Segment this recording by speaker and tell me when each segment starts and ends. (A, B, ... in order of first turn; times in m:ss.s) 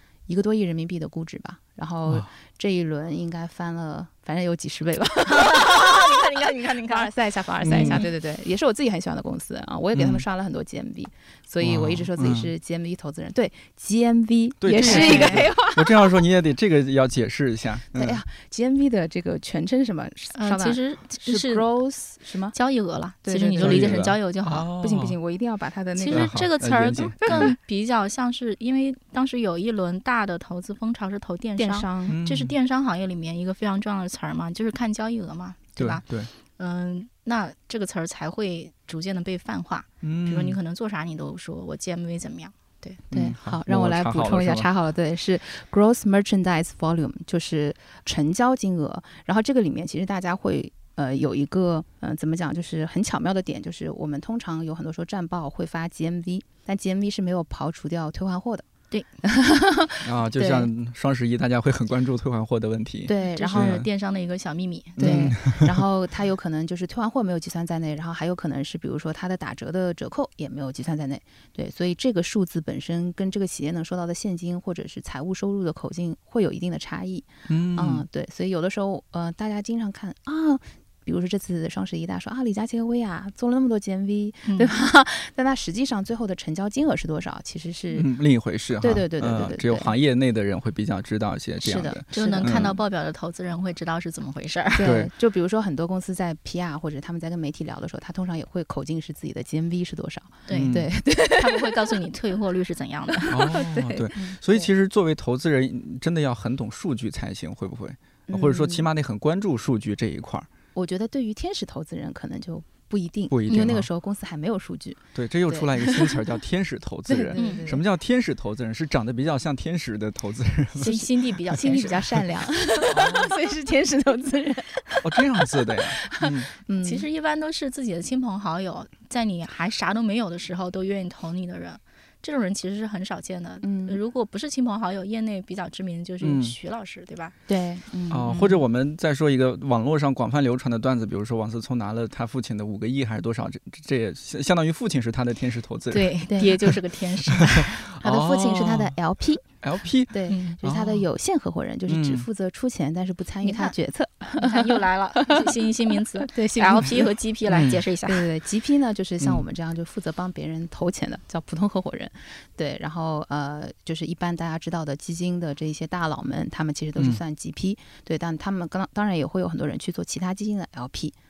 0:00.3-0:06.2 A
0:05.3-0:07.1 B
0:06.8-0:16.1 A
0:07.6-0:08.0 C
0:07.7-0:08.1 B
0:09.9-0:10.2 C
0:11.6-0:12.5 C
0:14.6-0:18.2 C
0:14.8-0:15.5 B
0:17.9-0:22.5 A
0:20.4-0:21.7 B
0:22.5-0:24.7 B
0:23.2-0:24.2 A
0:23.6-0:25.2 C
0:24.8-0:26.4 A
0:26.0-0:36.0 B
0:26.1-0:27.6 C
0:31.6-0:32.2 A
0:32.1-0:32.5 C
0:35.8-0:36.3 C
0:36.6-0:43.0 B
0:40.0-0:40.6 C
0:43.1-0:44.7 C
0:43.1-0:58.7 A
0:59.2-1:00.7 A
1:00.0-1:03.9 C
1:03.0-1:03.8 A
1:03.2-1:05.4 B
1:05.0-1:05.7 C
1:05.0-1:28.1 A
1:17.5-1:18.0 C
1:24.4-1:24.7 B
1:27.9-1:32.8 C
1:28.8-1:29.9 A
1:31.6-1:32.8 A
1:32.1-1:34.9 B
1:34.7-1:42.0 A
1:34.8-1:35.1 C
1:40.5-1:43.4 B
1:40.5-1:40.9 C
1:43.1-1:44.7 A
1:43.3-1:50.5 C
1:48.3-1:48.8 A
1:50.7-1:56.2 A
1:53.3-1:53.9 C
1:55.1-2:01.0 C
1:57.1-1:57.8 A
1:57.3-1:57.7 B
2:00.8-2:02.2 B
2:00.8-2:07.1 A
2:02.9-2:03.3 C
2:05.0-2:06.5 C
2:06.8-2:17.4 B
2:13.6-2:14.0 A
2:16.2-2:16.5 C
2:17.5-2:18.4 A
2:18.1-2:26.1 C
2:18.3-2:18.5 B
2:25.9-2:27.7 B
2:26.3-2:26.8 A
2:27.3-2:29.0 C
2:27.8-2:29.4 A
2:29.6-2:31.0 C
2:30.1-2:37.2 A
2:30.3-2:30.6 B
2:31.9-2:32.2 C
2:33.4-2:33.7 B
2:34.4-2:38.3 B
2:37.5-2:37.8 C
2:38.0-2:51.1 A
2:47.0-2:47.2 C